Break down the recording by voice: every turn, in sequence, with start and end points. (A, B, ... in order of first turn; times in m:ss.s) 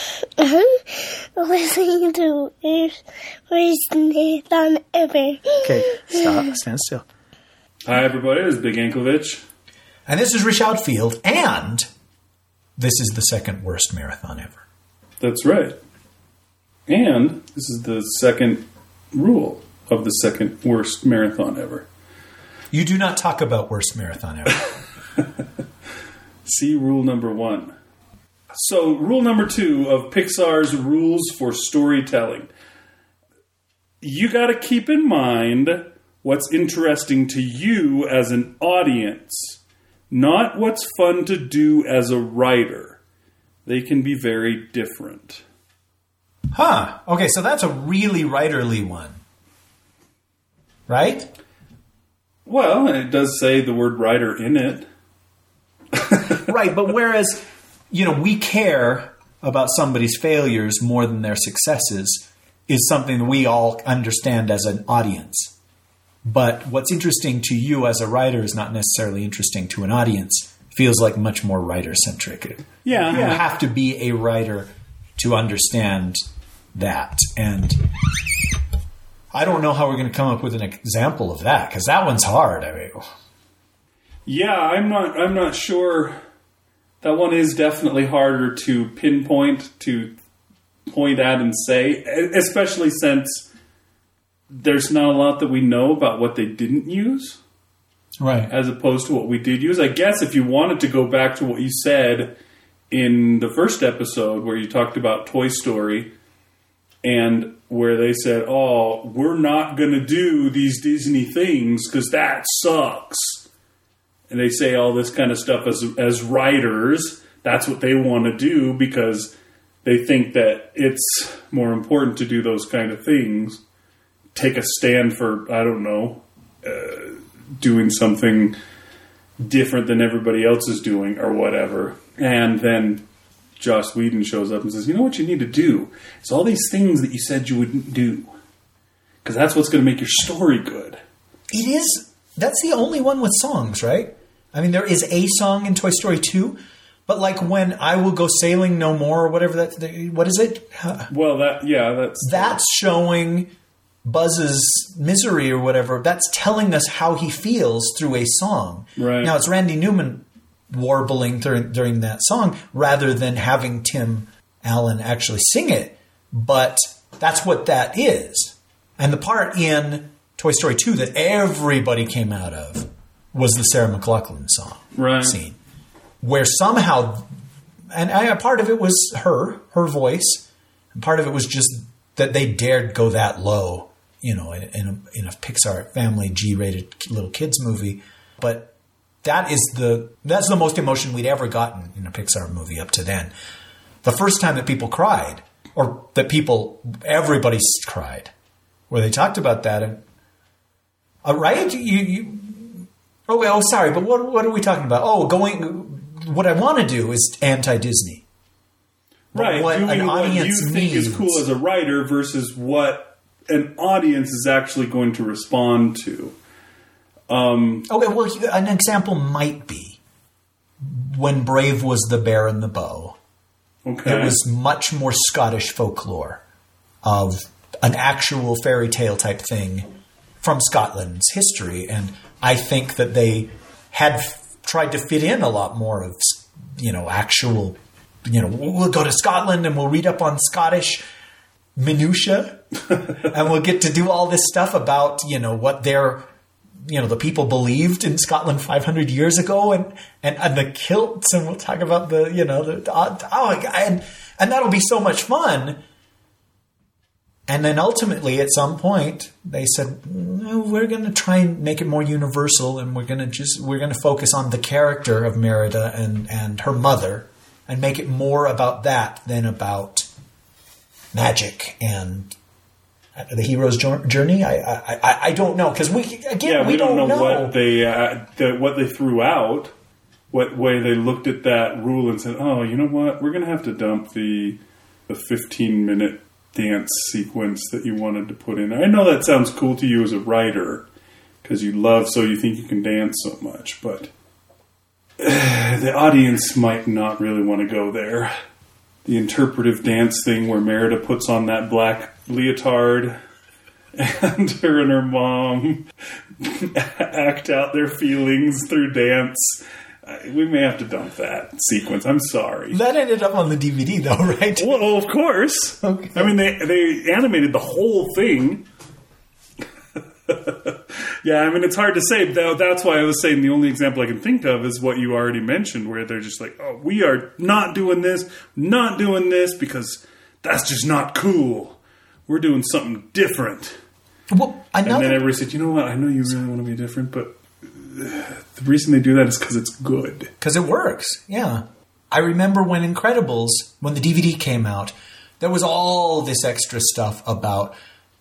0:00.4-0:03.0 A
0:03.5-0:06.1 A
0:05.6-0:07.1 B
0:07.8-0:09.4 C
0:10.1-0:11.8 B
0:12.8-0:14.6 B
0:15.2-0:15.8 C
0:16.9-0:21.9 C
0:22.7-0:24.7 B
0:26.4-0:27.7 C
0:28.5-0:32.5 C
0:34.0-0:39.6 C
0:40.1-0:43.0 C
0:43.6-0:45.4 C
0:46.5-0:49.2 B
0:50.9-0:51.3 B
0:52.4-0:54.9 C
0:56.0-0:56.3 C
0:56.4-1:05.5 B
1:06.3-1:16.2 B
1:12.8-1:13.4 C
1:16.8-1:17.8 B
1:19.3-1:23.0 B
1:24.3-1:26.2 C
1:27.0-1:30.2 C
1:30.9-1:33.5 C
1:34.5-1:37.4 C
1:38.2-1:38.5 B
1:38.5-1:42.3 C
1:42.9-1:46.1 C
1:47.0-1:53.4 C
1:54.3-2:03.6 C
2:04.4-2:08.6 C
2:09.4-2:13.0 C
2:13.6-2:18.3 C
2:19.2-2:21.0 C
2:21.5-2:31.1 B
2:31.1-2:32.6 C
2:32.2-2:33.5 B
2:34.0-2:55.6 B
2:39.0-2:39.3 C
2:55.0-2:55.4 C
2:56.2-2:57.3 B
2:57.9-3:08.7 B
3:09.2-3:13.3 B
3:14.0-3:18.3 B
3:18.9-3:20.0 B
3:21.2-3:28.2 B
3:29.3-3:36.4 C
3:29.3-3:31.4 B
3:37.3-3:37.9 C
3:37.9-3:40.0 B
3:40.8-3:43.2 B
3:43.8-3:44.4 C
3:44.0-3:46.4 B
3:47.0-3:49.9 B
3:50.4-4:01.0 B
4:01.8-4:06.2 B
4:06.8-4:15.8 B
4:17.5-4:30.1 B
4:31.1-4:32.4 B
4:33.2-4:37.6 B
4:36.4-4:39.7 C
4:40.3-4:50.9 C
4:51.4-4:54.1 C
4:55.2-4:58.3 C
4:59.0-5:03.1 C
5:04.0-5:05.9 C
5:06.4-5:12.8 C
5:12.7-5:14.9 B
5:14.6-5:18.6 C
5:15.8-5:16.4 B
5:20.3-5:33.8 C
5:34.3-5:35.3 B
5:34.8-5:40.3 C
5:40.4-5:47.8 B